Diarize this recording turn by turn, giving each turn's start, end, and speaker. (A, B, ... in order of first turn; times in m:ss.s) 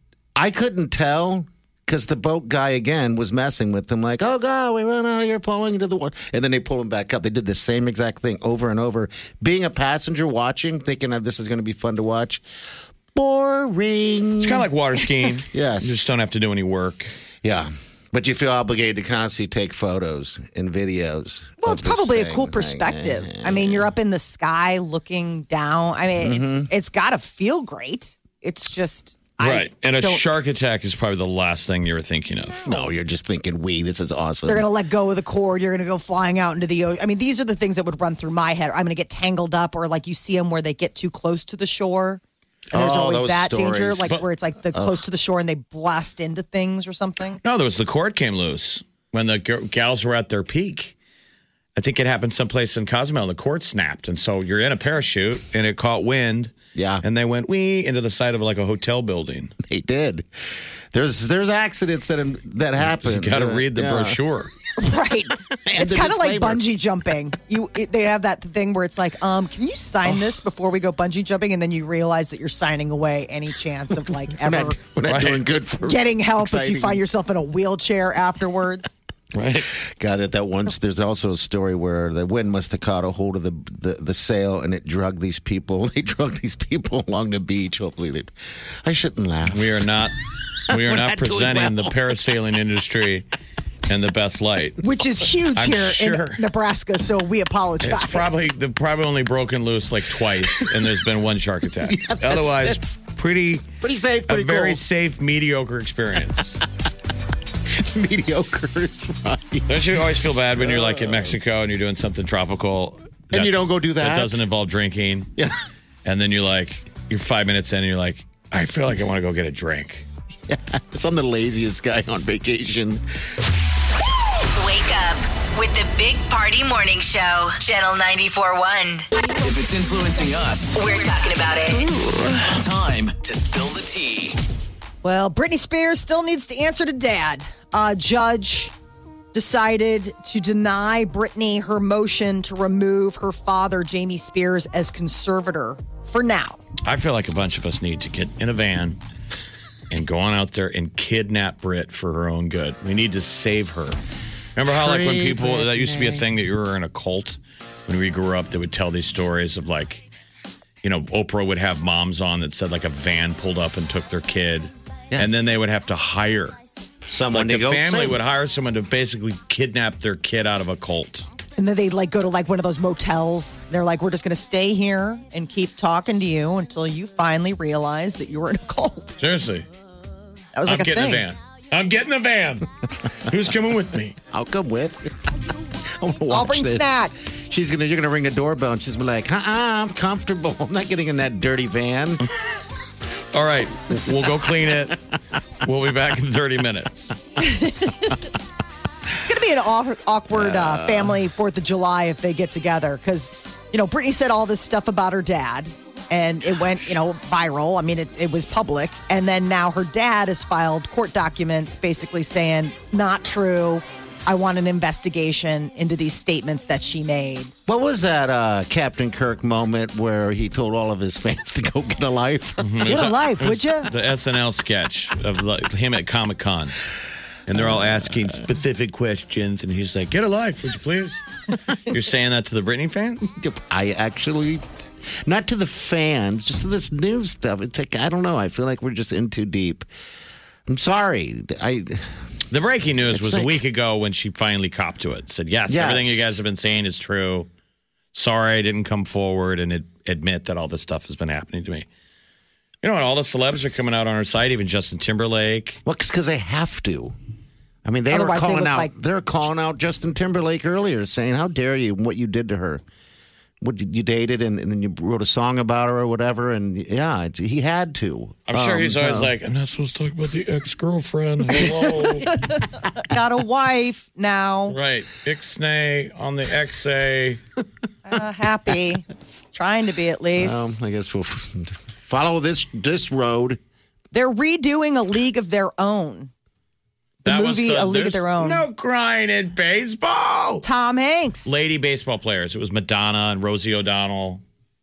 0:00.4-0:12.4 A
0:13.1-0:14.7 A
0:14.4-0:17.1 B
0:15.4-0:16.1 A
0:17.4-0:23.9 A
0:21.6-0:30.2 C
0:26.2-0:26.7 A
0:29.4-0:32.6 B
0:32.6-0:34.7 A
0:34.4-0:42.2 C
0:42.7-0:45.0 A
0:42.7-0:47.4 C
0:47.4-0:50.9 B
0:51.8-0:59.5 B
0:56.7-0:57.0 A
0:59.6-1:04.2 A
1:02.8-1:04.5 B
1:04.8-1:14.8 C
1:05.6-1:06.7 A
1:14.4-1:17.0 A
1:15.0-1:15.4 B
1:15.8-1:19.0 C
1:19.3-1:19.7 B
1:19.7-1:30.1 A
1:29.5-1:30.1 B
1:30.7-1:33.2 B
1:30.7-1:32.1 A
1:33.9-1:34.8 B
1:34.8-1:38.4 C
1:35.5-1:36.4 B
1:37.8-1:43.7 B
1:40.4-1:40.9 A
1:41.8-1:42.8 A
1:43.8-1:44.8 A
1:44.3-1:46.6 B
1:47.7-1:51.4 A
1:49.7-1:55.3 B
1:53.3-1:54.4 A
1:56.0-2:00.0 B
2:00.5-2:03.0 A
2:04.6-2:09.1 D
2:09.4-2:10.9 E
2:10.7-2:11.9 D
2:12.3-2:14.4 E
2:15.0-2:18.7 C
2:19.3-2:26.6 C
2:26.8-2:29.0 B
2:29.9-2:34.0 B
2:34.6-2:40.0 B
2:34.6-2:36.2 A
2:40.8-2:46.6 B
2:47.1-2:48.2 A
2:47.3-2:51.2 B
2:51.6-2:59.2 C
2:59.2-2:59.7 B
3:00.5-3:01.2 C
3:00.6-3:02.7 B
3:03.2-3:04.2 B
3:04.3-3:05.2 A
3:05.9-3:12.2 A
3:06.3-3:07.1 C
3:13.3-3:15.0 B
3:15.6-3:17.1 B
3:17.4-3:18.2 C
3:19.2-3:37.5 C
3:20.3-3:21.1 A
3:37.7-3:42.9 A
3:42.6-3:46.8 B
3:42.8-3:43.9 C
3:47.5-3:51.2 B
3:51.9-3:53.3 B
3:53.4-3:54.6 A
3:55.2-3:59.9 A
4:00.7-4:02.1 A
4:02.5-4:07.5 B
4:03.1-4:03.6 A
4:05.7-4:06.4 A
4:08.1-4:11.8 B
4:12.8-4:15.8 B
4:15.8-4:17.1 A
4:17.8-4:22.8 A
4:18.1-4:18.9 C
4:23.6-4:29.3 A
4:28.5-4:32.3 B
4:32.3-4:34.8 C
4:34.7-4:37.4 B
4:38.0-4:40.8 C
4:40.4-4:43.6 A
4:44.1-4:46.3 C
4:47.2-4:48.6 C
4:47.2-4:50.6 B
4:50.6-4:51.5 C
4:51.4-4:54.4 B